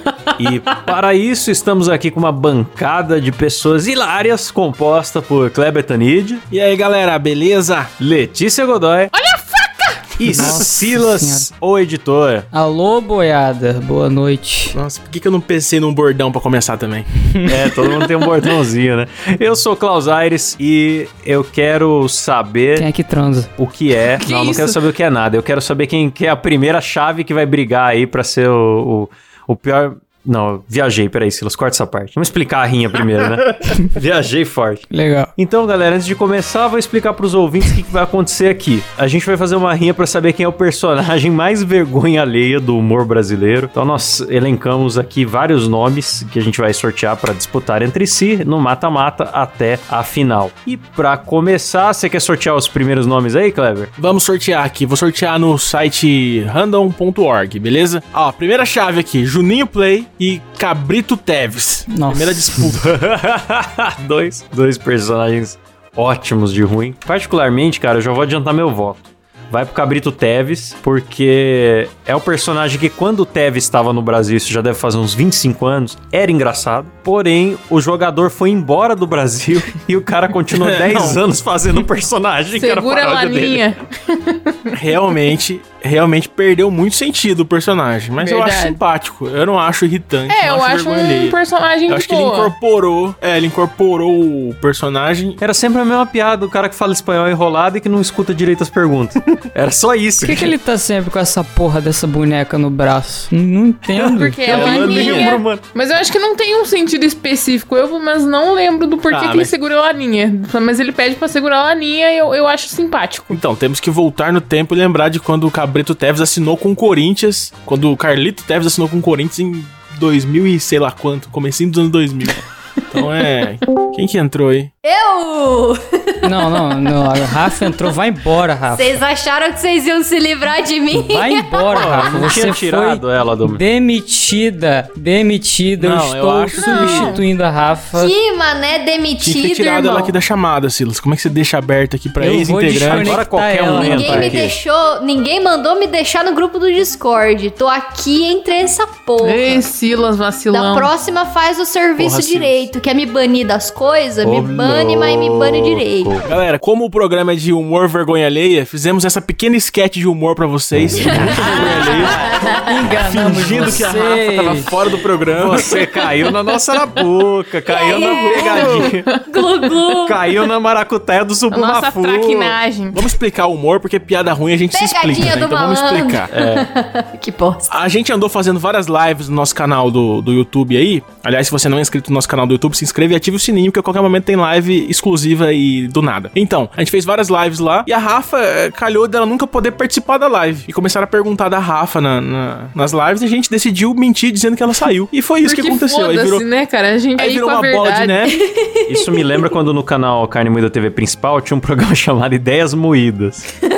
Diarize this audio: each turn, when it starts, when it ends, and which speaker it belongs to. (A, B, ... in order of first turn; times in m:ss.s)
0:00.4-0:06.4 A
0:06.5-0:07.9 B
0:08.0-0:09.1 A
0:09.1-0:10.2 C
0:10.2-0:12.5 A
0:10.3-0:11.5 D
0:12.5-0:14.8 D
0:14.7-0:17.1 B
0:17.4-0:22.9 A
0:22.8-0:23.5 D
0:23.6-0:53.9 A
0:24.2-0:24.8 C
0:34.9-0:35.3 D
0:54.0-1:03.0 B
1:01.9-1:02.5 D
1:02.6-1:23.7 A
1:20.5-1:21.2 B
1:22.6-1:24.8 C
1:24.7-1:31.4 B
1:28.2-1:28.8 C
1:30.3-1:32.5 C
1:31.9-1:35.4 B
1:35.4-1:40.6 A
1:40.2-1:44.6 D
1:43.9-1:45.6 A
1:44.1-1:53.4 C
1:44.5-1:45.4 B
1:49.1-1:49.5 B
1:53.3-2:04.7 B
2:04.8-2:06.9 E
2:06.2-2:09.0 D
2:08.7-2:11.6 E
2:10.9-2:18.1 D
2:11.7-2:13.6 A
2:15.8-2:17.2 B
2:16.6-2:17.2 C
2:17.9-2:20.1 E
2:19.2-2:23.2 B
2:22.2-2:24.4 D
2:22.9-2:24.6 A
2:23.7-2:29.7 E
2:29.2-2:30.9 C
2:30.5-2:36.2 E
2:32.0-2:32.7 B
2:34.2-2:36.3 A
2:36.2-2:42.2 B
2:41.0-2:42.5 E
2:41.0-2:42.1 A
2:41.5-2:43.8 C
2:42.9-2:45.8 B
2:42.9-2:44.7 D
2:45.4-2:49.2 A
2:47.7-2:50.2 E
2:48.3-2:48.8 C
2:49.9-2:52.6 A
2:51.5-2:53.1 C
2:52.9-2:56.3 B
2:54.7-2:57.7 E
2:56.3-2:56.7 A
2:57.7-3:16.4 B
3:15.4-3:18.3 C
3:17.2-3:18.4 B
3:18.3-3:19.3 E
3:18.9-3:23.5 A